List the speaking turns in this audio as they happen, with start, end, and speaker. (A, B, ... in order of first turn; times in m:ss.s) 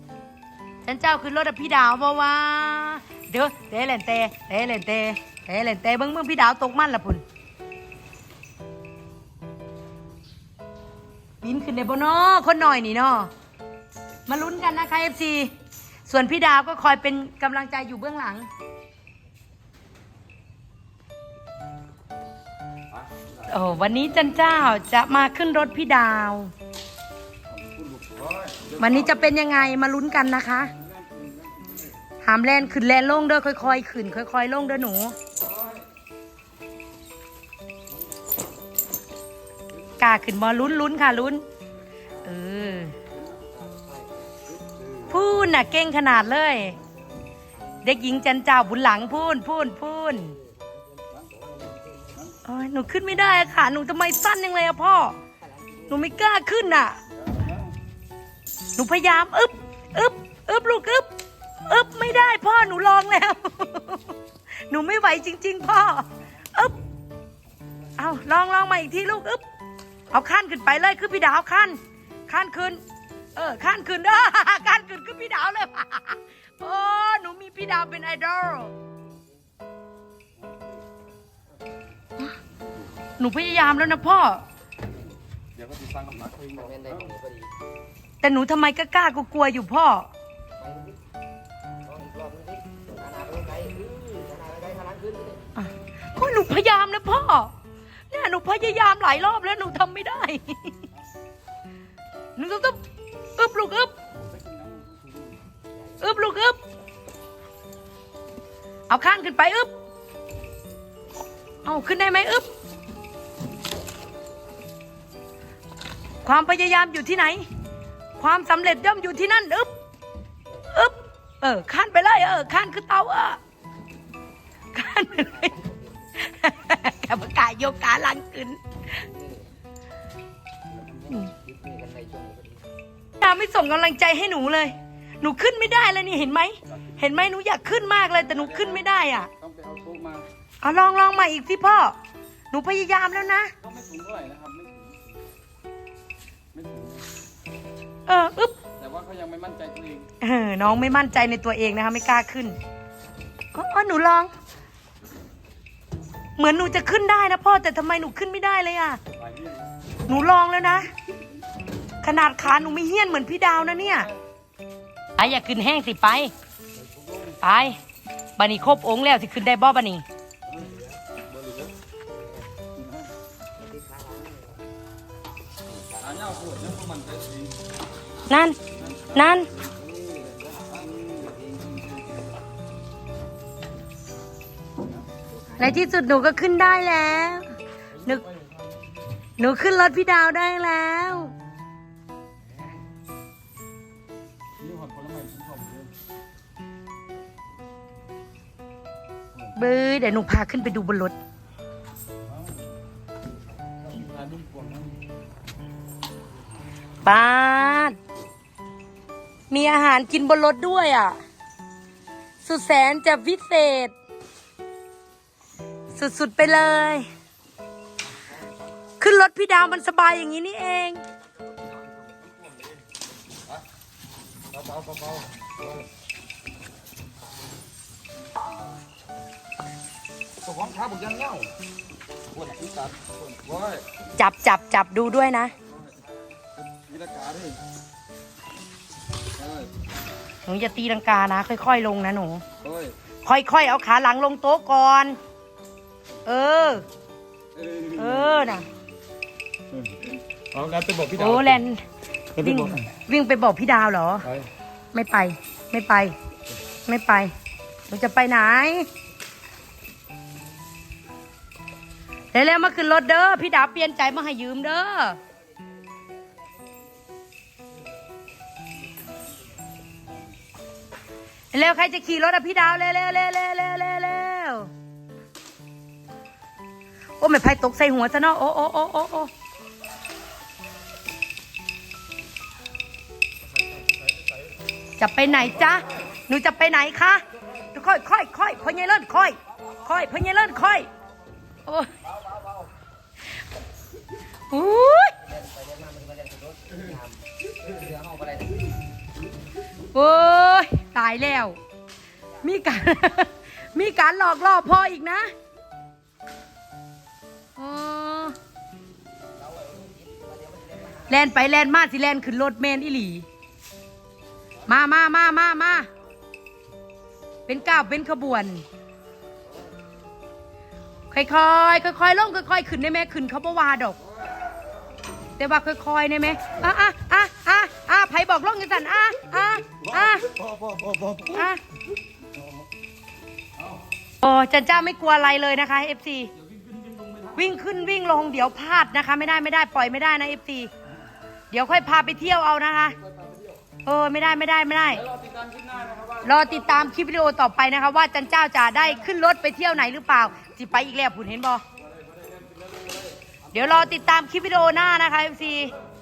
0:00.8-0:07.2 A
0:11.4-0:13.3 A
0:14.3-0:15.5 A
0:16.1-0:18.5 A
0:23.5-0:26.5 A
0:27.6-0:29.1 B
0:28.8-0:30.7 A
0:30.9-0:31.8 B
0:32.2-0:35.2 A
0:35.5-0:35.8 B
0:40.0-0:41.4 A
0:42.2-0:43.0 A
0:43.5-0:44.8 C
0:45.1-0:46.8 A
0:47.8-0:50.4 A
0:50.4-0:52.2 C
0:52.4-0:55.2 A
0:55.9-0:57.0 A
0:58.8-1:01.1 A
1:01.7-1:06.8 A
1:08.0-1:09.4 A
1:10.1-1:12.8 A
1:13.4-1:18.7 A
1:23.2-1:24.4 A
1:25.6-1:27.1 B
1:26.6-1:27.5 C
1:28.2-1:30.1 A
1:30.6-1:31.0 C
1:31.9-1:35.4 C
1:35.6-1:37.5 A
1:38.1-1:40.8 A
1:42.4-1:42.8 A
1:43.4-1:43.9 A
1:44.4-1:44.9 B
1:46.0-1:46.6 A
1:48.9-1:49.7 A
1:51.6-1:52.5 A
1:56.2-1:57.5 A
1:58.2-1:59.7 A
2:00.7-2:03.4 A
2:04.7-2:05.6 A
2:06.2-2:09.1 A
2:09.1-2:09.5 C
2:11.0-2:12.7 C
2:13.2-2:19.3 A
2:16.7-2:17.0 B
2:18.2-2:20.3 B
2:20.6-2:22.0 A
2:22.5-2:23.5 A
2:23.6-2:25.0 B
2:26.5-2:27.1 B
2:28.1-2:28.6 A
2:28.8-2:30.1 B
2:30.2-2:32.6 A
2:33.5-2:34.3 A
2:36.4-2:39.0 A
2:40.1-2:40.9 A
2:42.0-2:44.1 A
2:45.2-2:46.3 A
2:47.4-2:47.8 A
2:48.4-2:50.0 A
2:51.4-2:51.7 B
2:53.6-2:54.6 C
2:55.9-2:57.5 B
2:58.3-2:58.6 A
2:59.1-2:59.5 A
3:00.0-3:02.0 C
3:05.6-3:07.5 A
3:08.1-3:08.5 B
3:09.4-3:11.3 A
3:14.6-3:15.9 B
3:19.6-3:21.2 A
3:23.8-3:24.9 B
3:27.0-3:28.0 A
3:29.5-3:31.2 A
3:32.4-3:33.9 A
3:36.0-3:37.1 A
3:39.0-3:41.0 A
3:44.5-3:45.8 B
3:50.4-3:51.5 B
3:52.3-3:53.8 B
3:54.2-3:55.5 A
3:56.7-3:57.6 B
3:59.4-3:59.7 B
4:00.5-4:02.4 A
4:02.6-4:02.9 B
4:03.2-4:05.2 A
4:06.2-4:06.8 A
4:07.6-4:08.4 B
4:08.0-4:08.7 A
4:09.7-4:11.6 B
4:11.2-4:11.8 A
4:12.4-4:12.9 B
4:12.4-4:14.3 A
4:14.2-4:14.5 B
4:14.9-4:16.1 A
4:16.9-4:17.3 A
4:17.9-4:18.9 A
4:22.3-4:25.2 A
4:31.5-4:34.7 A
4:37.2-4:39.3 A
4:45.0-4:50.9 A
4:51.7-4:51.9 A
4:54.5-4:55.2 A
4:55.2-4:57.1 C
4:57.6-4:58.6 C
4:59.9-5:01.6 A
5:02.4-5:05.3 A
5:07.6-5:08.4 A
5:09.5-5:10.9 C
5:11.0-5:13.3 A
5:14.7-5:15.9 A
5:17.5-5:18.6 A
5:21.1-5:24.0 A
5:25.4-5:30.3 A
5:30.6-5:31.2 B
5:31.2-5:31.6 A
5:34.2-5:36.3 A
5:36.6-5:37.3 B
5:37.3-5:40.7 A
5:41.5-5:43.0 A
5:43.8-5:45.1 A
5:45.1-5:46.2 B
5:46.2-5:51.6 A
5:52.0-5:53.1 B
5:53.5-5:55.8 A